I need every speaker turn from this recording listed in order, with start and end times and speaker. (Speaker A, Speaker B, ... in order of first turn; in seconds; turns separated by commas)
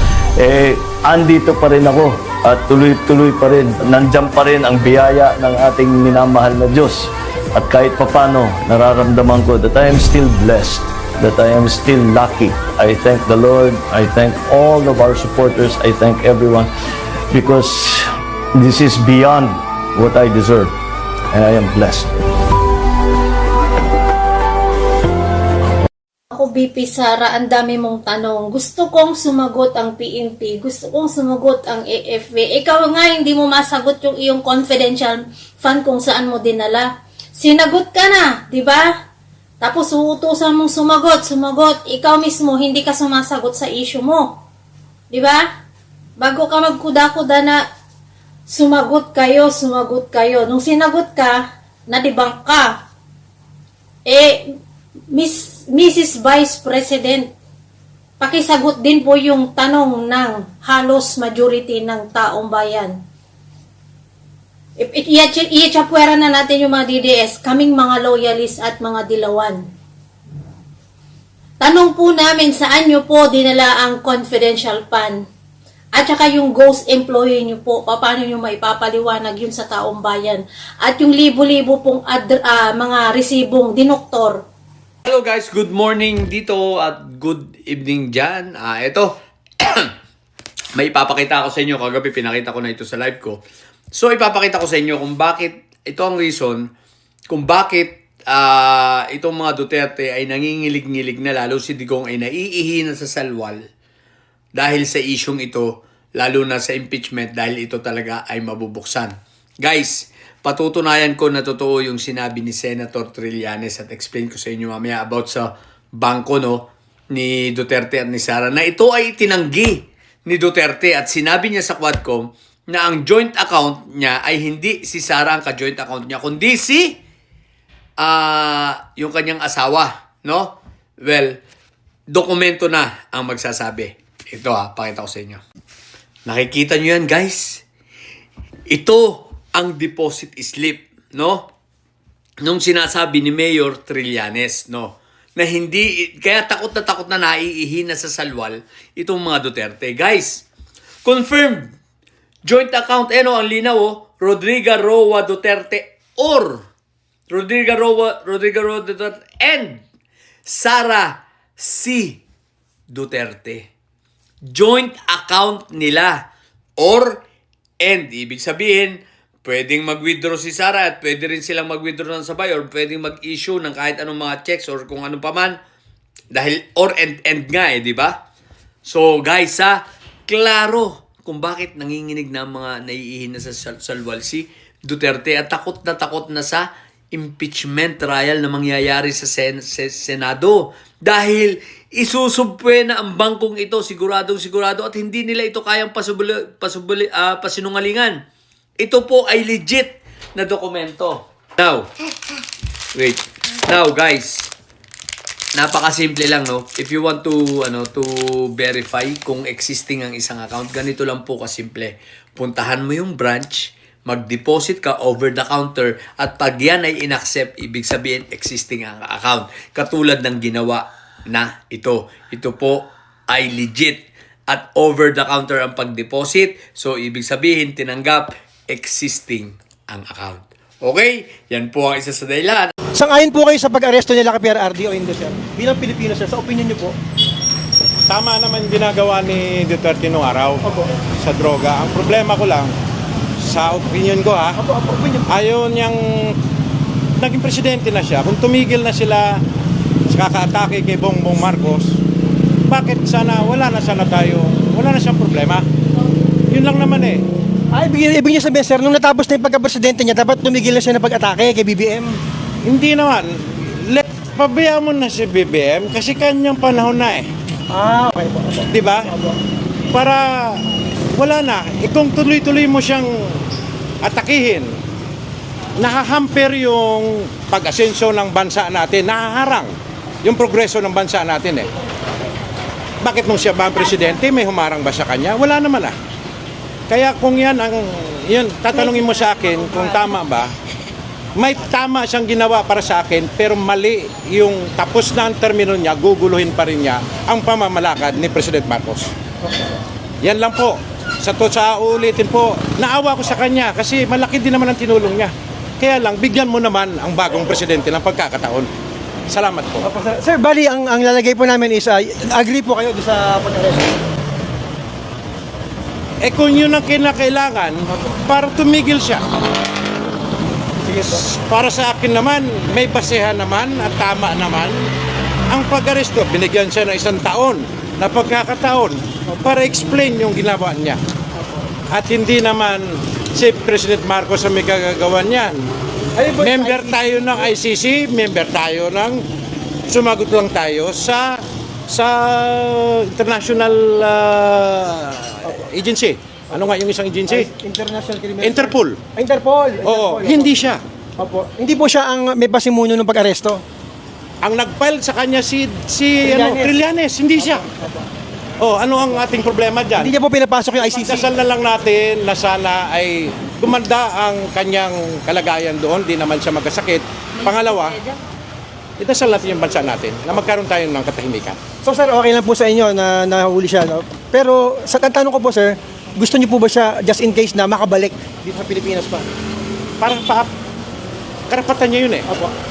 Speaker A: 0.4-16.7, Speaker A: 17.3-18.0, Speaker A: 18.6-20.7, Speaker A: 21.3-22.1, Speaker B: 26.3-38.9, Speaker B: 39.6-44.4, Speaker B: 45.1-45.4, Speaker B: 46.2-47.6, Speaker B: 48.5-52.8, Speaker B: 54.1-54.5, Speaker B: 55.1-57.3, Speaker B: 58.2-62.9, Speaker B: 64.8-69.6, Speaker B: 71.6-75.2, Speaker B: 76.0-84.5, Speaker C: 85.0-89.9, Speaker C: 90.8-93.4, Speaker C: 93.9-96.7, Speaker C: 97.3-103.7, Speaker C: 104.5-127.0, Speaker C: 128.0-131.4, Speaker C: 132.1-135.4, Speaker C: 136.3-137.7, Speaker C: 138.7-141.5, Speaker C: 142.4-150.5, Speaker C: 151.0-151.8, Speaker C: 152.4-156.7, Speaker C: 157.3-159.8, Speaker C: 160.4-162.2, Speaker C: 162.9-163.7, Speaker C: 164.5-167.2, Speaker C: 167.8-175.6, Speaker C: 176.3-178.2, Speaker C: 178.8-198.2, Speaker C: 198.8-201.9, Speaker C: 202.9-204.5, Speaker C: 205.6-232.7, Speaker D: 232.9-237.0, Speaker E: 238.1-240.6, Speaker E: 241.2-242.7, Speaker E: 243.4-244.6, Speaker D: 244.6-245.3, Speaker E: 245.3-246.3, Speaker E: 247.2-249.4, Speaker E: 250.1-251.9, Speaker E: 252.7-255.6, Speaker E: 256.5-257.2, Speaker D: 257.7-262.2, Speaker E: 262.6-267.3, Speaker D: 267.7-269.4, Speaker E: 268.7-269.1, Speaker E: 269.9-270.6, Speaker E: 271.1-273.1, Speaker E: 274.0-274.7, Speaker E: 275.8-279.7, Speaker E: 280.2-281.7, Speaker E: 283.0-285.9, Speaker E: 286.9-290.5, Speaker E: 291.4-299.1, Speaker E: 300.2-308.7, Speaker E: 309.3-309.9, Speaker D: 309.8-313.9, Speaker E: 316.2-319.2, Speaker D: 320.8-321.2, Speaker E: 321.0-324.8, Speaker E: 325.5-331.0, Speaker E: 331.9-335.7, Speaker D: 336.2-337.5, Speaker E: 336.4-339.2, Speaker E: 339.9-347.5, Speaker D: 347.3-350.5, Speaker E: 348.4-349.0, Speaker E: 349.8-350.8, Speaker D: 351.2-353.6, Speaker E: 354.4-357.6, Speaker D: 356.2-356.8, Speaker D: 357.4-358.1, Speaker E: 358.6-360.1, Speaker D: 360.0-361.3, Speaker E: 360.9-368.0, Speaker E: 369.0-371.6, Speaker D: 371.8-379.3, Speaker E: 380.0-380.5, Speaker E: 381.5-382.3